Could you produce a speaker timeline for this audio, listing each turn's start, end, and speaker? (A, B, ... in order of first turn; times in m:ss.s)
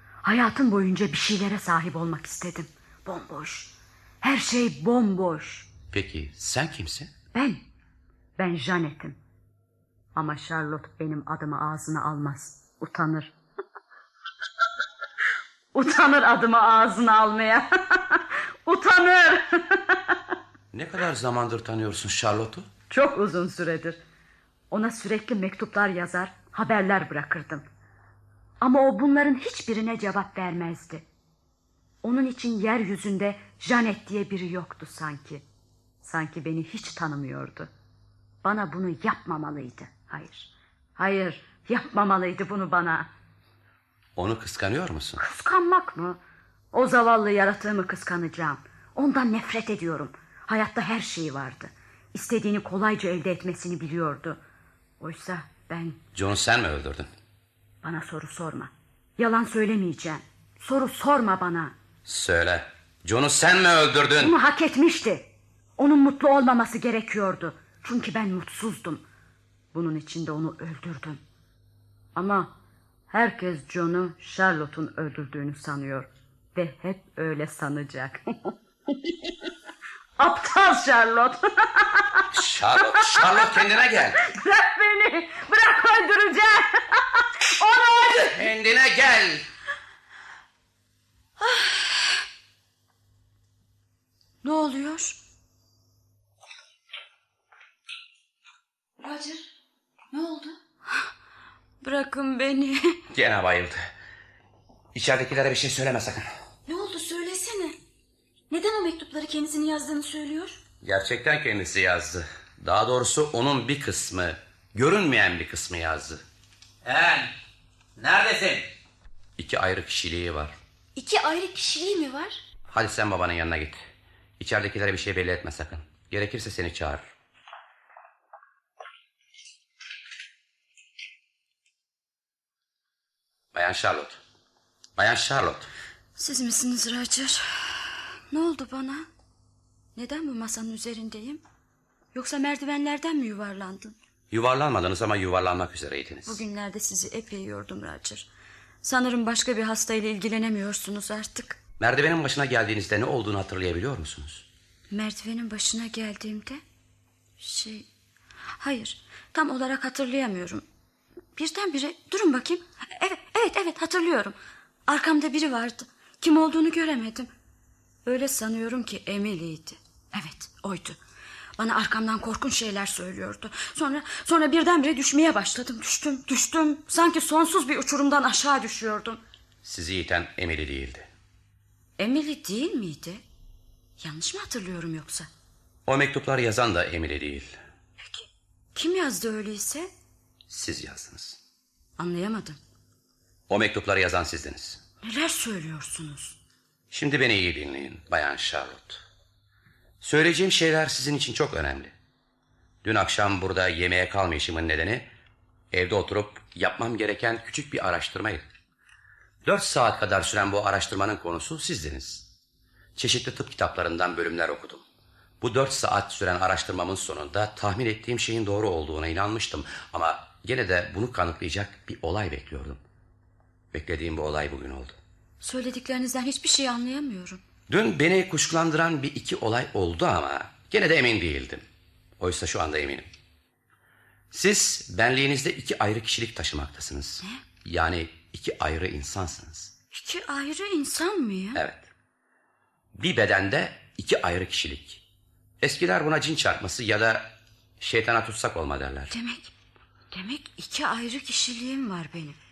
0:00.2-0:05.7 A
0:05.9-0:07.1 B
0:07.3-0:07.6 A
0:08.4-0:09.2 A
0:10.2-0:13.3 A
0:15.7-0:20.0 A
0:20.7-0:22.7 B
0:22.9-0:24.0 A
0:24.7-0:27.7 A
0:28.6-0:31.0 A
0:32.0-0:35.4 A
0:36.0-0:37.7 A
0:38.4-0:43.1 A
0:44.2-0:45.2 B
0:45.2-0:46.2 A
0:46.7-0:54.4 A
0:55.0-0:56.0 A
0:56.2-0:57.1 B
0:57.8-1:01.7 A
1:02.1-1:04.4 B
1:04.2-1:09.0 A
1:09.7-1:11.2 A
1:12.2-1:12.5 A
1:13.1-1:19.3 A
1:20.2-1:23.4 A
1:22.3-1:24.2 B
1:24.2-1:28.4 A
1:28.4-1:29.5 B
1:31.4-1:31.8 A
1:34.4-1:35.2 A
1:39.0-1:39.5 C
1:40.1-1:40.6 C
1:41.8-1:43.0 A
1:43.1-1:43.8 B
1:44.9-1:46.3 B
1:46.7-1:47.8 C
1:48.5-1:50.6 C
1:50.8-1:56.2 B
1:56.9-1:57.3 B
1:58.0-1:58.7 B
1:59.4-2:00.6 B
2:01.0-2:02.4 C
2:02.7-2:03.8 B
2:04.4-2:07.0 B
2:13.5-2:14.2 B
2:15.0-2:15.7 B
2:16.2-2:19.1 A
2:20.0-2:21.4 A
2:22.1-2:24.0 A
2:24.3-2:26.4 B
2:26.3-2:28.3 A
2:28.8-2:31.6 A
2:31.8-2:34.5 B
2:34.9-2:36.6 A
2:37.4-2:37.9 A
2:38.6-2:40.6 A
2:41.4-2:44.4 A
2:44.9-2:47.3 A
2:48.0-2:51.0 A
2:51.6-2:59.2 A
2:59.6-3:01.1 B
3:02.0-3:03.2 A
3:04.0-3:05.3 A
3:05.9-3:07.6 B
3:08.0-3:09.9 A
3:10.5-3:11.4 B
3:12.0-3:12.6 A
3:13.5-3:14.8 B
3:15.0-3:16.4 A
3:16.9-3:19.0 B
3:20.0-3:21.9 B
3:22.8-3:25.1 B
3:25.7-3:28.5 B
3:29.4-3:32.3 B
3:33.0-3:34.8 B
3:35.4-3:42.8 B
3:43.7-3:45.0 B
3:45.4-3:47.4 A
3:47.7-3:51.6 B
3:52.2-3:53.1 B
3:54.3-3:59.7 B
3:59.9-4:01.6 A
4:01.6-4:01.9 B
4:03.0-4:05.0 B
4:05.6-4:09.1 B
4:09.1-4:09.5 A
4:10.1-4:12.4 A